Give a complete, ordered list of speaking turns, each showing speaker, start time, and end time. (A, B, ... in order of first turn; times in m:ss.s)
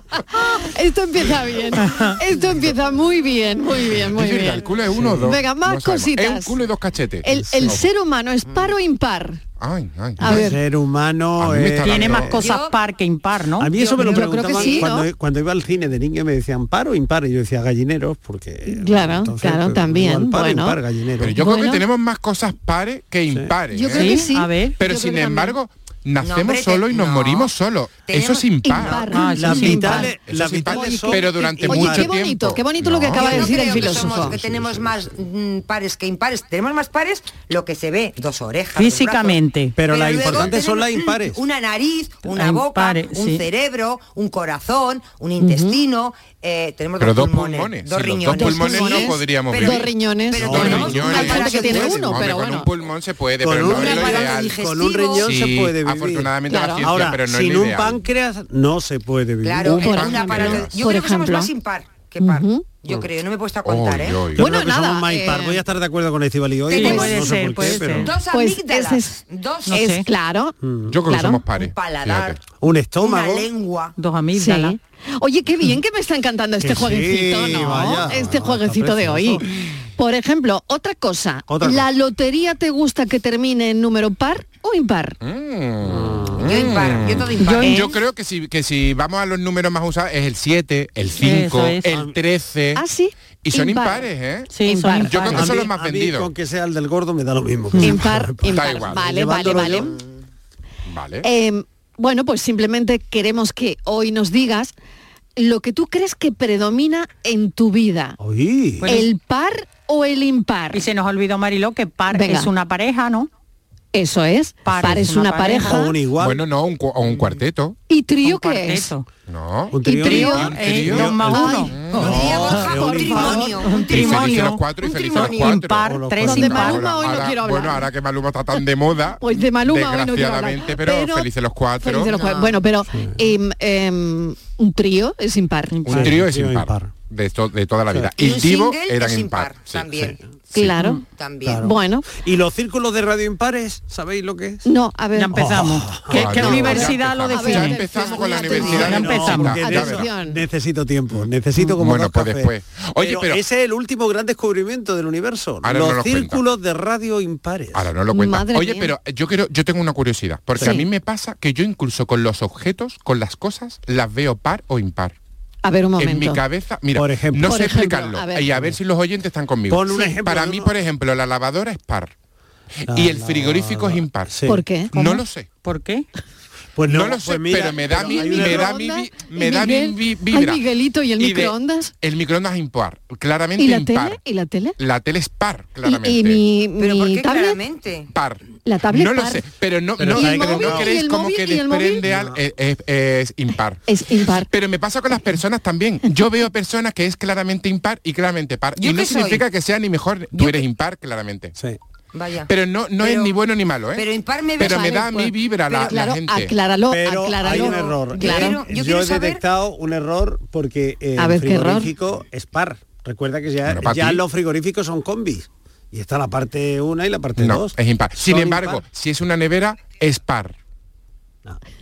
0:00.4-0:04.6 A
0:04.0-0:07.8 B
0:05.2-0:06.6 A
0:07.2-0:09.4 A
0:07.4-0:07.7 C
0:09.6-0:10.6 B
0:10.2-0:12.3 C
0:10.2-0:10.6 A
0:11.4-0:12.4 B
0:11.8-0:14.7 D
0:12.2-0:12.8 E
0:13.6-0:21.4 C
0:13.8-0:14.5 E
0:14.0-0:15.1 A
0:18.7-0:20.8 A
0:21.2-0:24.2 B
0:21.4-0:21.8 A
0:23.7-0:25.6 A
0:23.9-0:24.8 D
0:24.8-0:29.0 B
0:26.2-0:27.5 E
0:28.1-0:29.3 E
0:28.7-0:30.1 A
0:29.1-0:30.1 D
0:29.4-0:32.1 C
0:30.2-0:33.7 B
0:30.7-0:34.4 A
0:30.8-0:31.2 D
0:33.2-0:52.2 E
0:33.8-0:35.1 C
0:38.8-0:39.8 D
0:39.8-0:41.4 C
0:42.2-0:43.4 D
0:45.4-0:45.7 A
0:47.0-0:49.9 B
0:48.3-0:52.7 A
0:50.4-0:52.3 C
0:50.4-0:54.6 B
0:53.4-0:59.9 C
0:53.6-0:55.3 E
0:55.2-0:58.0 B
0:56.5-0:56.9 A
0:59.4-1:04.3 E
0:59.6-1:00.7 B
0:59.7-1:01.5 A
1:02.2-1:02.7 A
1:03.6-1:04.4 B
1:04.4-1:05.6 A
1:04.4-1:08.2 C
1:06.7-1:08.1 D
1:06.8-1:07.0 E
1:06.8-1:07.4 A
1:08.0-1:09.9 E
1:08.2-1:10.6 A
1:09.7-1:10.0 D
1:10.6-1:11.3 C
1:10.9-1:12.4 B
1:11.1-1:11.4 A
1:11.6-1:12.4 E
1:12.5-1:13.5 C
1:13.0-1:14.0 E
1:14.0-1:14.8 D
1:14.4-1:19.4 A
1:16.6-1:19.6 C
1:20.0-1:25.2 A
1:21.5-1:21.9 C
1:25.2-1:32.8 B
1:25.8-1:26.5 C
1:26.4-1:27.9 E
1:27.4-1:27.7 D
1:31.2-1:31.9 D
1:31.9-1:32.2 C
1:32.8-1:34.1 A
1:33.4-1:34.5 B
1:34.5-1:35.5 D
1:34.6-1:35.4 A
1:35.1-1:36.3 B
1:35.3-1:40.0 C
1:37.8-1:40.0 A
1:38.4-1:39.1 B
1:39.7-1:40.1 E
1:40.9-1:41.2 B
1:41.2-1:44.7 A
1:45.4-1:48.2 A
1:48.2-1:48.9 C
1:48.8-1:49.1 D
1:48.9-1:50.8 A
1:50.7-1:53.3 D
1:52.1-1:52.5 A
1:53.9-1:56.0 A
1:54.6-1:55.8 D
1:55.6-1:56.4 C
1:56.2-1:57.8 B
1:57.1-1:57.4 C
1:57.9-1:58.9 A
1:58.2-1:59.1 D
1:59.3-2:02.1 B
1:59.7-2:03.6 C
1:59.8-2:03.9 A
2:00.1-2:01.7 D
2:01.9-2:05.6 E
2:03.6-2:06.9 D
2:03.9-2:12.1 B
2:05.9-2:06.4 C
2:06.2-2:07.8 A
2:09.2-2:11.3 A
2:11.8-2:15.9 A
2:12.1-2:12.6 E
2:15.7-2:16.1 D
2:15.9-2:19.9 B
2:15.9-2:16.9 C
2:18.2-2:20.2 E
2:20.5-2:21.0 A
2:20.8-2:21.0 D
2:21.2-2:21.7 E
2:21.4-2:24.6 C
2:21.6-2:22.1 A
2:24.6-2:25.6 A
2:25.1-2:29.6 D
2:25.3-2:26.9 C
2:26.1-2:30.1 B
2:26.2-2:30.4 A
2:28.7-2:37.9 C
2:31.1-2:33.4 B
2:35.6-2:36.4 B
2:37.7-2:45.2 B
2:38.1-2:38.9 A
2:40.6-2:40.8 C
2:45.6-2:46.4 A
2:46.0-2:52.1 B
2:47.0-2:47.6 C
2:47.4-2:48.5 A
2:49.7-2:50.7 C
2:52.8-2:54.3 B
2:52.9-2:54.6 C
2:54.5-2:55.0 A
2:54.9-2:55.5 B
2:54.9-2:56.1 D
2:56.8-2:58.8 C
2:56.9-3:00.6 B
2:57.9-3:01.9 A
3:01.2-3:04.2 B
3:03.6-3:04.8 A
3:04.8-3:06.4 B
3:05.8-3:07.6 A
3:06.8-3:08.1 E
3:08.1-3:13.8 B
3:08.7-3:09.4 A
3:10.0-3:11.0 C
3:10.1-3:12.0 A
3:12.0-3:12.4 C
3:13.9-3:14.5 A
3:14.4-3:21.6 B
3:18.8-3:19.4 E
3:22.1-3:23.4 E
3:22.5-3:24.1 B
3:24.0-3:24.9 E
3:24.6-3:26.5 B
3:24.6-3:25.4 A
3:25.7-3:25.9 E
3:25.9-3:28.6 A
3:26.9-3:38.8 C
3:27.5-3:29.4 E
3:31.2-3:31.9 A
3:33.7-3:34.2 B
3:37.4-3:40.6 B